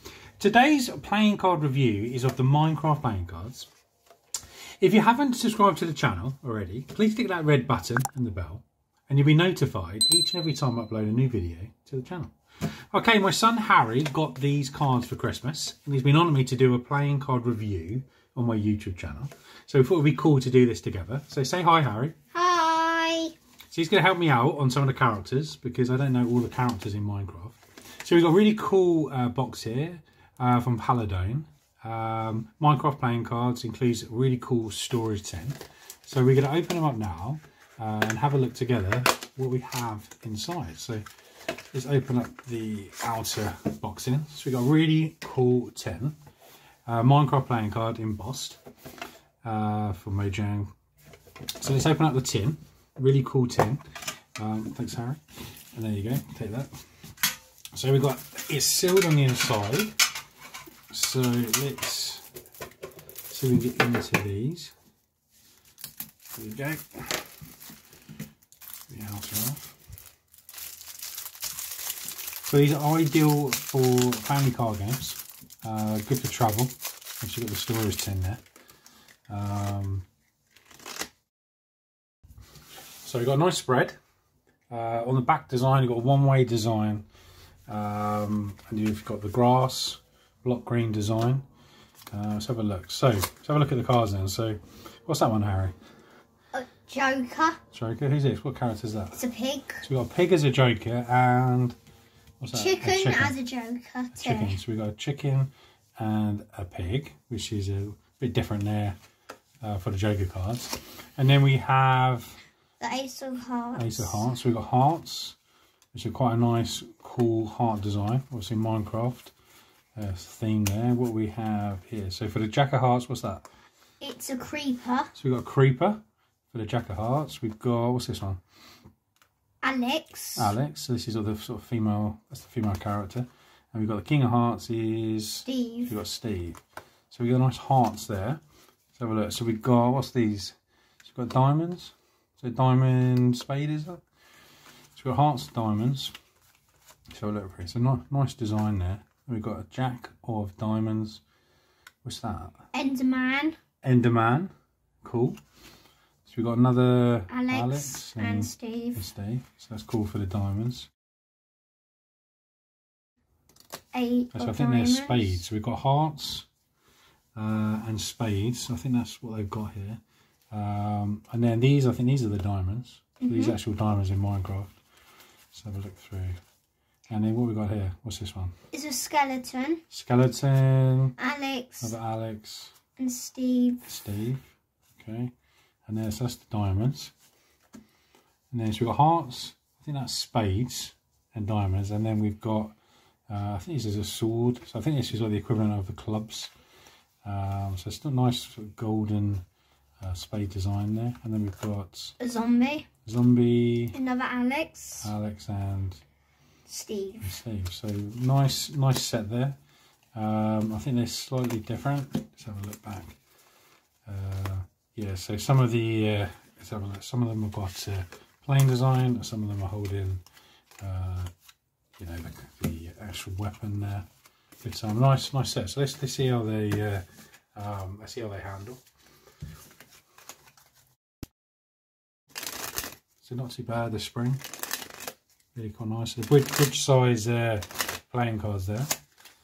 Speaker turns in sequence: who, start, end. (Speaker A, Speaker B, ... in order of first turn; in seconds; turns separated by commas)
Speaker A: 0.4-3.7, Speaker A: 4.8-12.3, Speaker A: 12.9-22.1, Speaker B: 22.3-23.3, Speaker A: 23.7-41.0, Speaker A: 41.7-46.1, Speaker A: 46.9-48.6, Speaker A: 49.4-50.7, Speaker A: 51.6-53.8, Speaker A: 54.4-55.2, Speaker A: 55.7-56.7, Speaker A: 57.7-60.0, Speaker A: 60.9-62.2, Speaker A: 63.3-64.7, Speaker A: 66.3-67.3, Speaker A: 68.9-69.7, Speaker A: 72.4-78.4, Speaker A: 79.3-80.0, Speaker A: 83.0-84.0, Speaker A: 84.7-87.0, Speaker A: 87.7-91.4, Speaker A: 92.1-95.7, Speaker B: 96.5-97.6, Speaker A: 97.7-99.2, Speaker B: 99.1-99.8, Speaker A: 99.8-101.8, Speaker A: 102.4-103.3, Speaker B: 102.5-104.6, Speaker A: 104.1-109.0, Speaker A: 109.6-112.4, Speaker B: 112.8-114.2, Speaker A: 113.8-115.4, Speaker A: 115.9-119.3, Speaker A: 120.0-123.5, Speaker B: 124.0-125.1, Speaker A: 125.1-126.0, Speaker A: 126.5-128.4, Speaker B: 129.6-130.5, Speaker A: 130.3-136.6, Speaker B: 135.4-135.9, Speaker A: 137.1-138.4, Speaker A: 138.9-144.0, Speaker A: 144.9-146.1, Speaker A: 147.1-151.2, Speaker A: 152.0-152.6, Speaker B: 152.7-153.6, Speaker A: 153.8-154.5, Speaker A: 155.0-155.4, Speaker A: 156.2-160.9, Speaker B: 157.3-159.0, Speaker B: 163.9-165.4, Speaker A: 164.3-166.5, Speaker A: 167.3-170.0, Speaker A: 170.5-174.7, Speaker B: 173.2-173.6, Speaker A: 175.5-176.4, Speaker A: 177.1-178.5, Speaker B: 178.7-179.8, Speaker A: 179.9-181.1, Speaker B: 181.2-181.9, Speaker A: 181.8-182.7, Speaker B: 183.0-183.8, Speaker A: 183.8-185.3, Speaker A: 185.9-187.1, Speaker A: 188.5-192.8, Speaker A: 193.3-196.5, Speaker A: 197.2-199.4, Speaker A: 200.0-202.2, Speaker B: 202.2-202.9, Speaker A: 203.0-203.9, Speaker B: 203.9-205.1, Speaker A: 205.0-206.0, Speaker B: 206.7-207.3, Speaker A: 207.2-209.6, Speaker A: 210.1-213.2, Speaker A: 214.1-220.2, Speaker A: 220.8-221.3, Speaker A: 222.0-224.1, Speaker A: 224.6-228.8, Speaker A: 233.2-234.4, Speaker A: 235.5-238.9